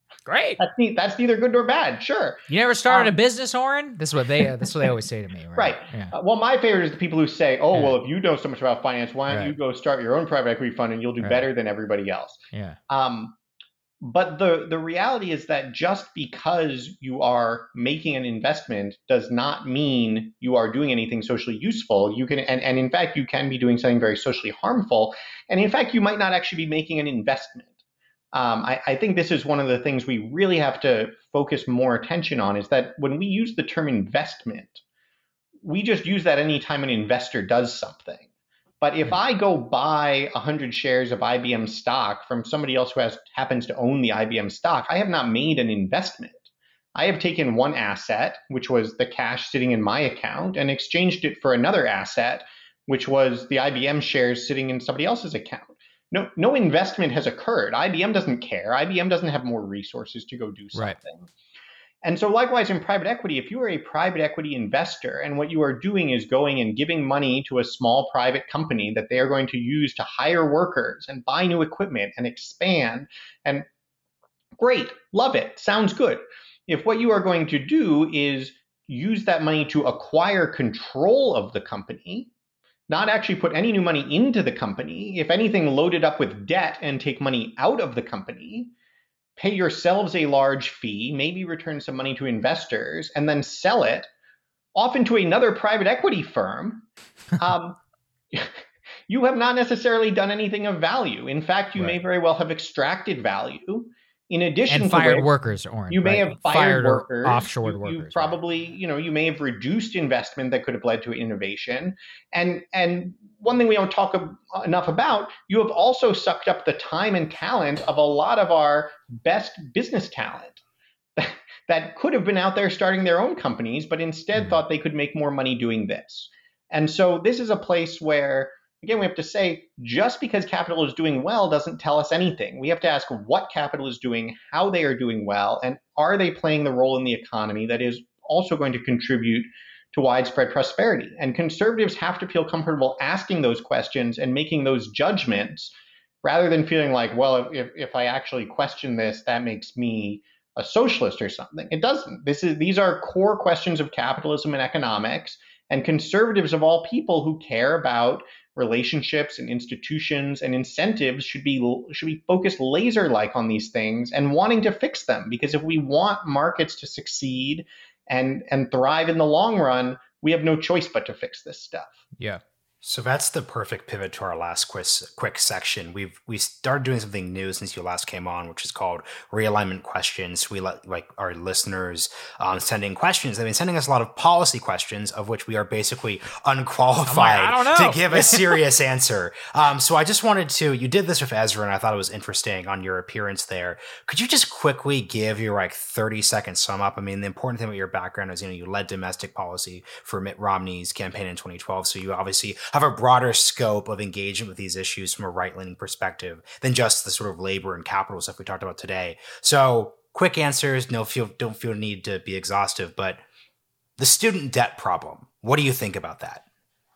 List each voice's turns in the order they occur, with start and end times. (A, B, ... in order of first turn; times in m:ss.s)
0:00.3-0:00.6 A
0:00.6-0:03.1 B
0:02.5-0:06.2 A
0:05.6-0:13.4 B
0:09.3-0:09.6 A
0:12.5-0:12.8 A
0:14.0-0:27.7 B
0:28.3-0:34.8 B
0:35.6-0:38.3 B
0:38.8-1:01.3 B
1:02.0-1:13.7 B
1:14.6-1:22.3 B
1:22.9-1:28.7 B
1:29.4-1:34.1 B
1:34.8-1:37.8 B
1:39.1-1:45.3 B
1:44.7-1:48.4 A
1:45.9-2:00.6 B
2:01.2-2:52.0 B
2:52.8-3:33.2 C
3:07.1-3:08.6 A
3:34.0-3:36.4 C